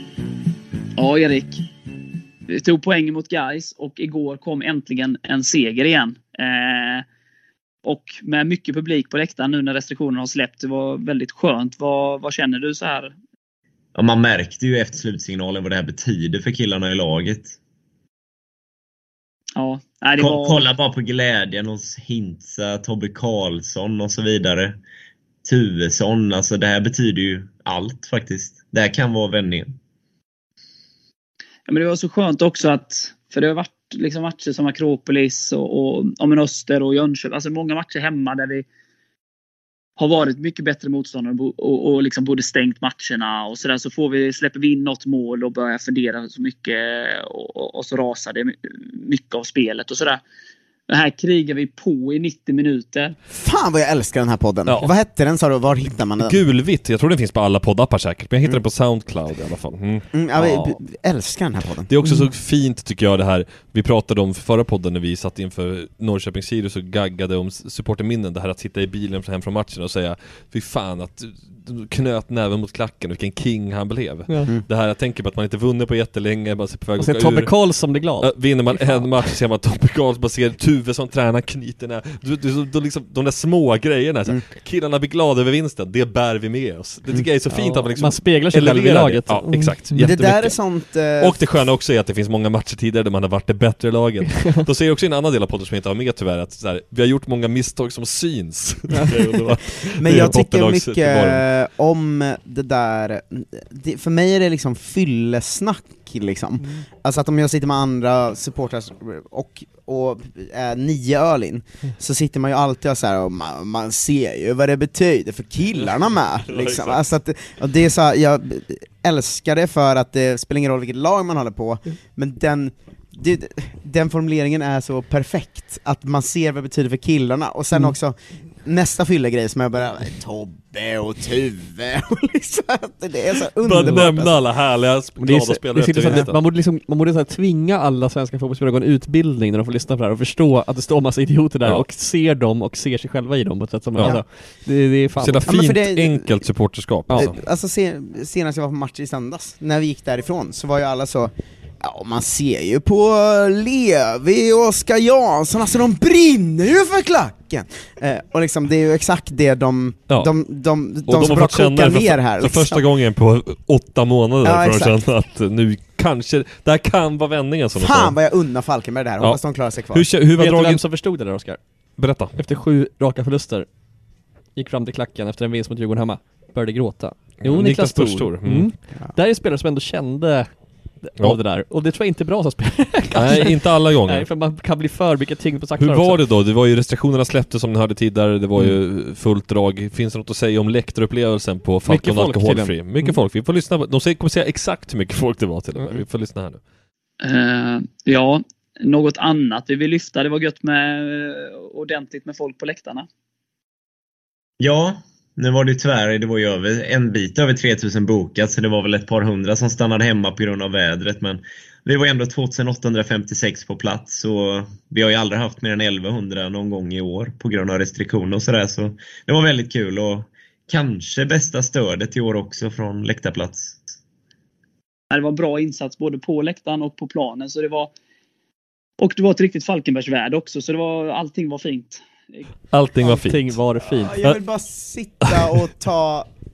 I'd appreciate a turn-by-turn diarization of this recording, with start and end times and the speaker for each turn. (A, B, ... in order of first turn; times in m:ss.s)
0:01.0-0:01.6 A
0:02.5-0:07.0 A
0:07.8-0:13.1 A
0:13.9-0:17.5 B
0:19.6-0:20.6 A
0:20.2-0:24.8 B
0:25.4-0:29.7 B
0:31.7-0:38.6 A
0:40.0-0:50.2 A
0:50.9-0:53.2 A
0:53.3-0:56.4 C
0:56.2-1:00.7 D
1:00.1-1:01.9 C
1:01.9-1:17.5 D
1:17.0-1:19.1 E
1:18.2-1:30.5 D
1:27.5-1:30.3 E
1:30.0-1:31.4 C
1:31.2-1:41.4 D
1:38.9-1:39.4 E
1:40.0-2:14.4 C
1:56.5-1:57.0 D
2:13.6-2:16.4 D
2:13.7-2:14.0 E
2:15.2-2:25.5 E
2:25.2-2:27.4 D
2:25.4-2:26.4 C
2:27.1-2:42.8 C
2:41.0-2:48.2 D
2:44.4-2:45.0 C
2:47.8-2:50.1 C
2:49.9-2:50.8 D
2:50.4-2:51.6 E
2:52.0-2:52.4 D
2:52.4-2:53.7 E
2:54.6-3:00.5 E
2:57.4-2:58.7 D
3:01.0-3:06.2 E
3:03.1-3:04.3 D
3:05.8-3:16.6 D
3:11.9-3:13.2 E
3:17.2-3:23.1 A
3:24.6-3:43.8 B
3:45.1-3:47.9 A
3:49.0-3:52.4 A
3:52.7-3:53.6 D
3:53.0-3:54.2 E
3:53.8-3:56.3 C